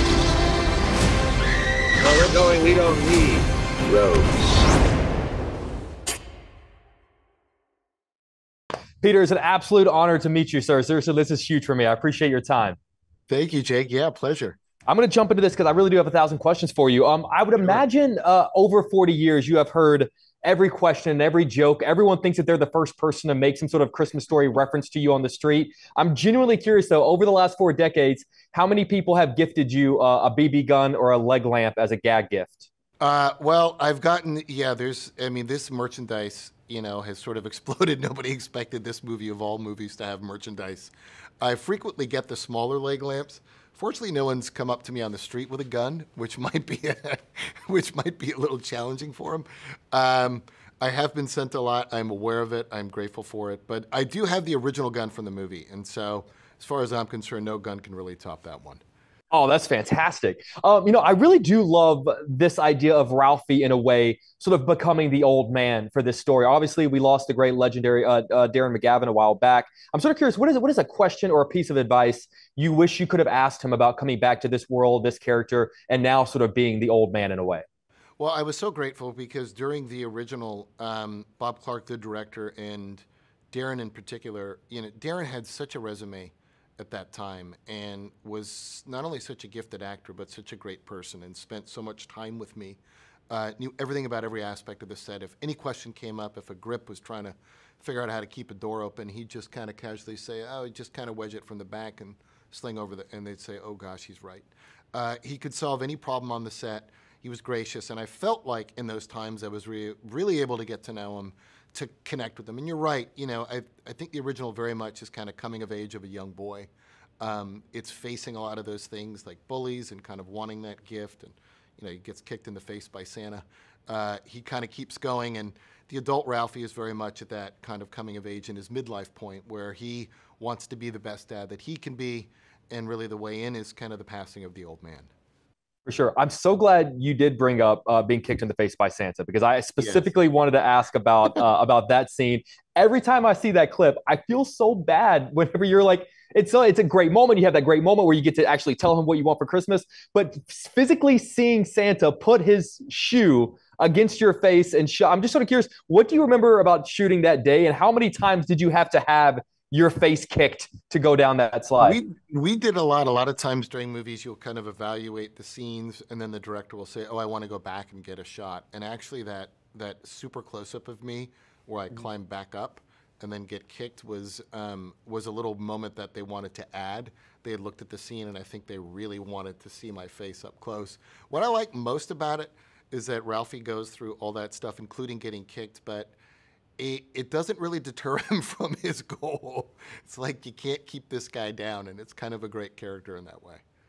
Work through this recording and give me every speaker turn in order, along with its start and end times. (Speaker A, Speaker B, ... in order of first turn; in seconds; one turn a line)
Speaker A: 2.0-4.3
Speaker B: 9.0-12.8
Speaker C: 13.3-14.6
Speaker B: 14.9-32.7
Speaker C: 33.0-58.8
Speaker B: 59.3-77.6
Speaker C: 78.2-116.7
Speaker C: 117.2-135.1
Speaker B: 135.8-162.0
Speaker C: 139.8-140.1
Speaker C: 161.8-186.1
Speaker C: 186.8-193.6